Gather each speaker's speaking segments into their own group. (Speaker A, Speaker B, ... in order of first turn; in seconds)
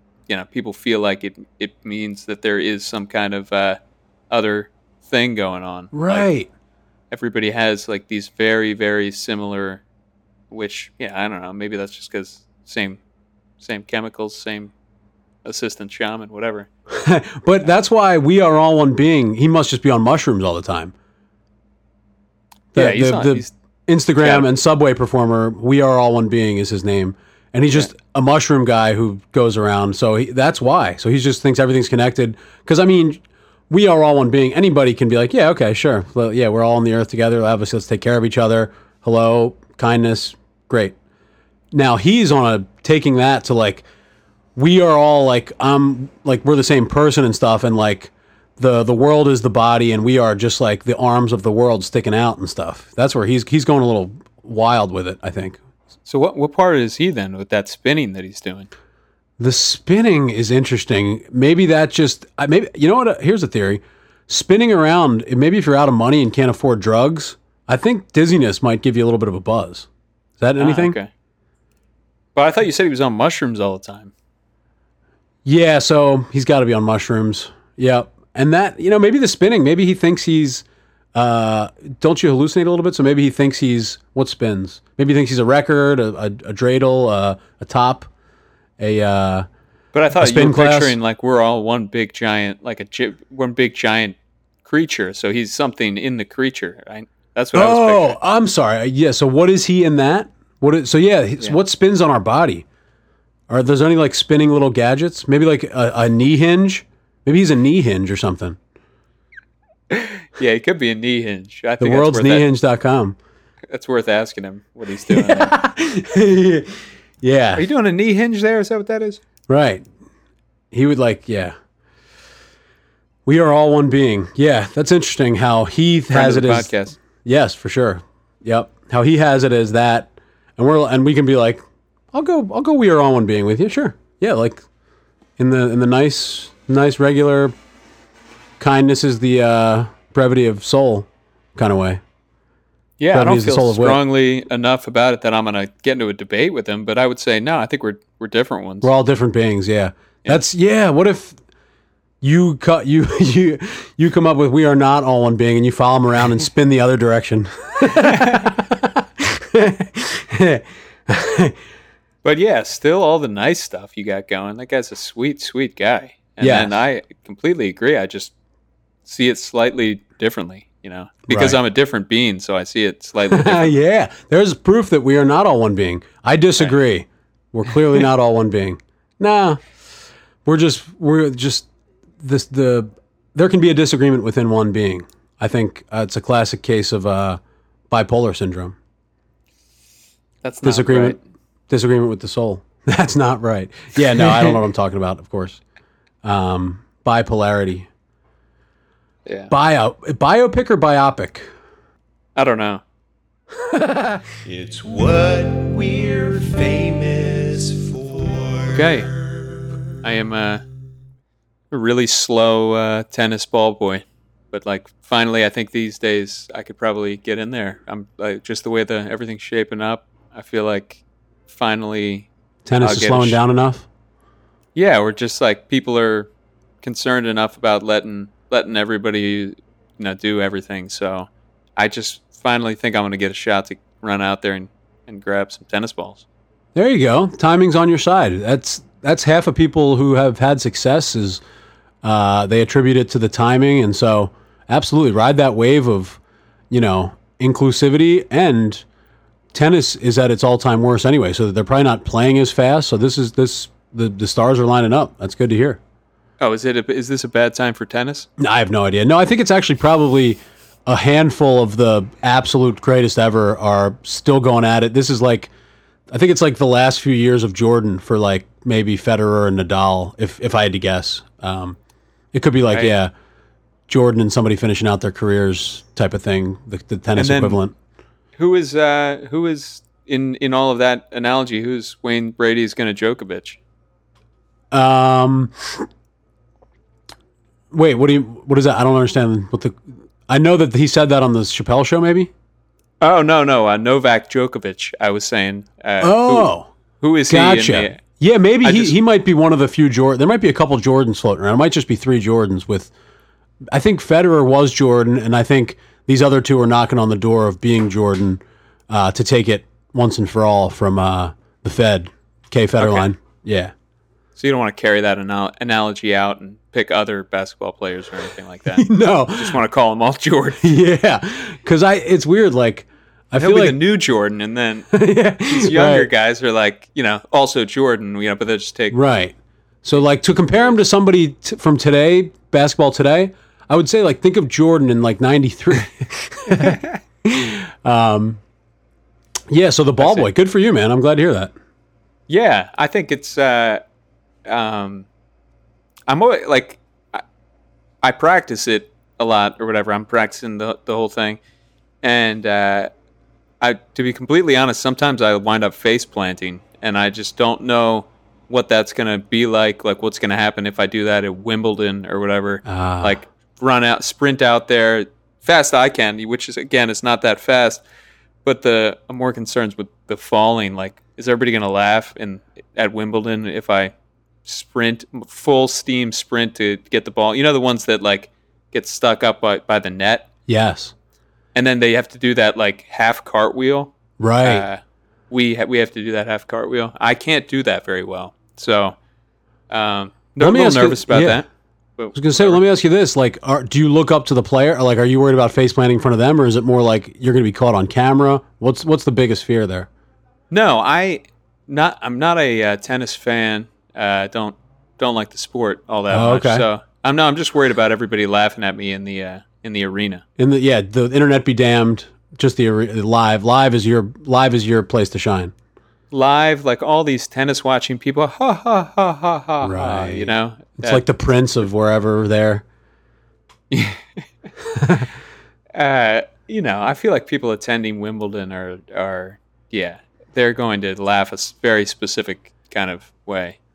Speaker A: 0.3-6.3, 7.1-9.8, 10.5-13.0, 13.6-14.7, 15.4-16.7, 22.7-23.5, 24.2-24.5, 56.0-58.7, 70.6-71.1, 72.3-74.1, 89.9-98.2, 109.9-112.5, 113.7-115.5, 117.5-119.2, 126.1-127.0, 143.0-148.9, 158.0-158.5, 162.2-168.3, 169.0-173.7, 190.4-191.2, 199.2-199.5, 202.3-202.8, 208.7-209.1, 210.0-210.6, 211.7-223.4, 224.7-226.3, 226.8-236.2, 256.4-258.3, 277.1-277.6, 278.4-283.6, 293.0-298.0, 298.6-298.9, 312.8-313.1, 314.4-320.6, 323.4-324.9, 325.4-329.0, 336.6-336.9, 340.0-340.3, 342.3-343.8, 344.4-345.1, 346.1-347.2, 348.0-351.4, 352.0-352.9, 353.6-367.8, 368.4-373.9, 374.4-380.3, 381.5-388.9, 389.7-392.6, 400.5-410.2, 416.1-421.0, 423.7-424.0, 425.7-433.6
Speaker B: 5.9-6.5, 16.9-20.9, 22.7-41.0, 41.7-43.8, 44.5-55.6, 59.4-69.9, 70.4-71.0, 75.4-88.1, 88.8-89.5, 90.2-91.0, 97.5-102.6, 103.5-108.6, 111.8-113.2, 115.1-117.6, 119.5-119.8, 120.7-121.5, 123.2-126.7, 127.2-134.6, 135.4-137.5, 138.6-142.0, 143.1-144.0, 148.8-151.4, 152.2-161.5, 166.4-166.8, 171.3-171.6, 173.3-179.6, 180.4-181.7, 182.2-188.8, 190.6-191.2, 191.7-195.6, 196.2-197.9, 199.5-201.5, 203.7-204.2, 222.6-223.9, 236.7-241.4, 242.0-246.2, 246.7-248.8, 249.5-255.8, 258.4-265.5, 266.1-271.8, 272.3-273.1, 273.9-277.7, 284.7-285.9, 287.7-292.3, 296.0-296.7, 297.3-302.9, 303.7-313.7, 318.7-319.6, 320.6-323.8, 324.9-326.1, 328.9-338.4, 339.5-341.5, 362.6-363.2, 380.5-380.9, 384.2-384.6, 390.4-391.4, 392.1-399.9, 406.1-406.6, 410.4-415.5, 419.6-422.6, 424.7-425.1
Speaker C: 204.4-209.6